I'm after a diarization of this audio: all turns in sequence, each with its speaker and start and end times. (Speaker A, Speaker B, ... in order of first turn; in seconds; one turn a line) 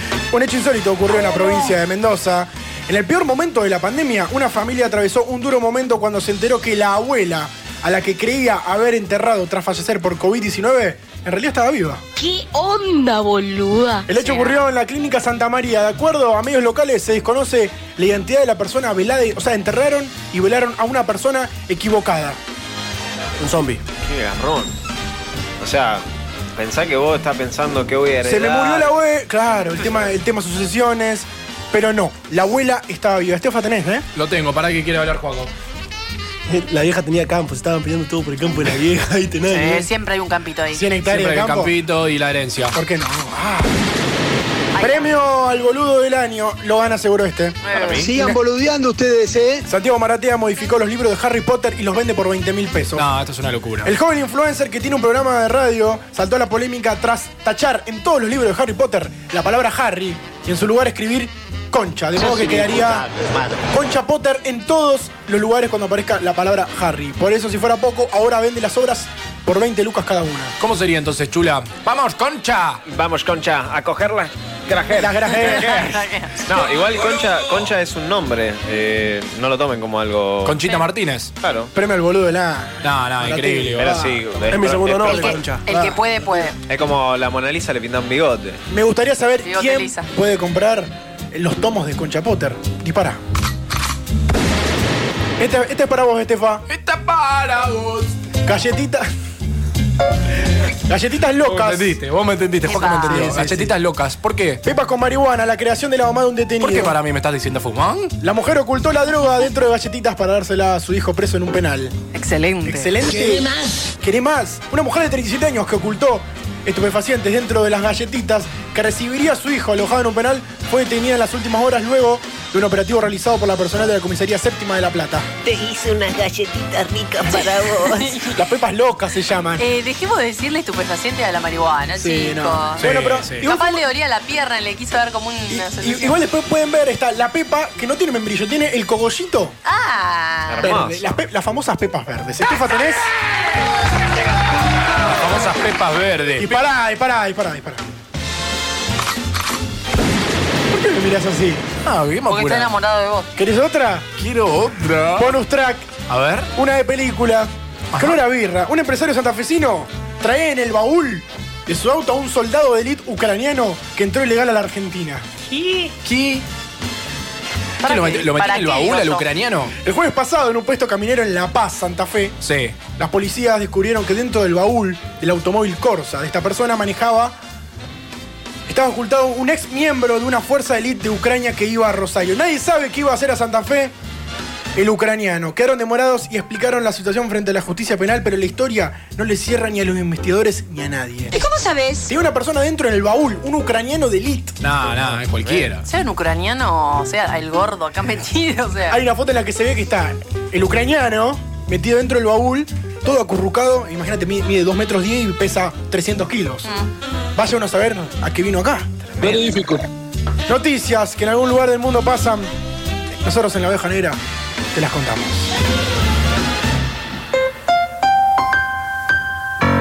Speaker A: 0.3-12.0
Speaker A: 14.1-22.4
Speaker B: 14.2-14.7
Speaker C: 23.4-23.8
Speaker D: 24.0-24.7
Speaker D: 25.6-26.0
Speaker D: 26.6-28.9
Speaker A: 28.2-34.0
Speaker E: 34.1-35.5
Speaker C: 36.5-39.9
Speaker B: 39.5-40.8
Speaker A: 40.7-41.7
Speaker E: 41.0-42.8
Speaker A: 42.7-43.7
Speaker B: 44.7-45.1
Speaker A: 44.8-47.6
Speaker B: 47.6-48.1
Speaker D: 47.7-48.1
Speaker A: 48.1-48.4
Speaker A: 49.6-53.1
Speaker E: 52.9-53.9
Speaker A: 53.8-70.5
Speaker E: 70.6-72.8
Speaker D: 72.8-80.7
Speaker A: 74.9-76.0
Speaker B: 75.5-76.4
Speaker E: 80.4-81.3
Speaker D: 81.4-81.7
Speaker A: 81.7-84.2
Speaker E: 82.8-84.0
Speaker D: 83.8-85.4
Speaker C: 84.5-85.6
Speaker B: 85.0-86.6
Speaker A: 85.7-86.3
Speaker D: 86.7-88.6
Speaker A: 88.7-93.2
Speaker B: 89.4-90.1
Speaker A: 95.4-96.6
Speaker E: 96.7-98.1
Speaker A: 98.4-99.1
Speaker A: 100.8-102.0
Speaker E: 101.4-104.6
Speaker B: 102.7-103.3
Speaker A: 102.7-103.7
Speaker A: 104.6-106.9
Speaker E: 106.6-108.1
Speaker A: 108.2-111.9
Speaker B: 112.1-112.9
Speaker A: 112.6-125.3
Speaker F: 125.4-128.1
Speaker B: 127.3-128.4
Speaker A: 128.3-129.6
Speaker B: 129.6-132.9
Speaker A: 132.0-133.8
Speaker E: 132.8-133.5
Speaker B: 133.4-136.2
Speaker A: 135.5-139.5
Speaker B: 139.6-140.8
Speaker D: 140.5-141.2
Speaker A: 140.6-143.1
Speaker E: 145.0-146.5
Speaker A: 146.4-147.8
Speaker A: 150.7-151.6
Speaker E: 151.8-152.7
Speaker B: 152.3-153.3
Speaker A: 153.3-154.1
Speaker E: 154.2-155.3
Speaker A: 155.2-155.9
Speaker E: 156.1-156.5
Speaker A: 156.5-165.2
Speaker E: 157.9-158.2
Speaker B: 165.5-165.9
Speaker E: 166.0-166.4
Speaker B: 167.8-169.2
Speaker E: 167.8-169.7
Speaker A: 169.8-177.3
Speaker E: 172.4-172.8
Speaker A: 178.7-183.9
Speaker A: 184.7-191.4
Speaker A: 192.1-194.6
Speaker E: 194.6-195.8
Speaker B: 195.8-199.0
Speaker A: 198.9-206.7
Speaker B: 206.6-206.9
Speaker A: 207.3-209.0
Speaker E: 209.2-209.8
Speaker A: 210.5-212.5
Speaker A: 213.2-214.2
Speaker A: 214.7-215.5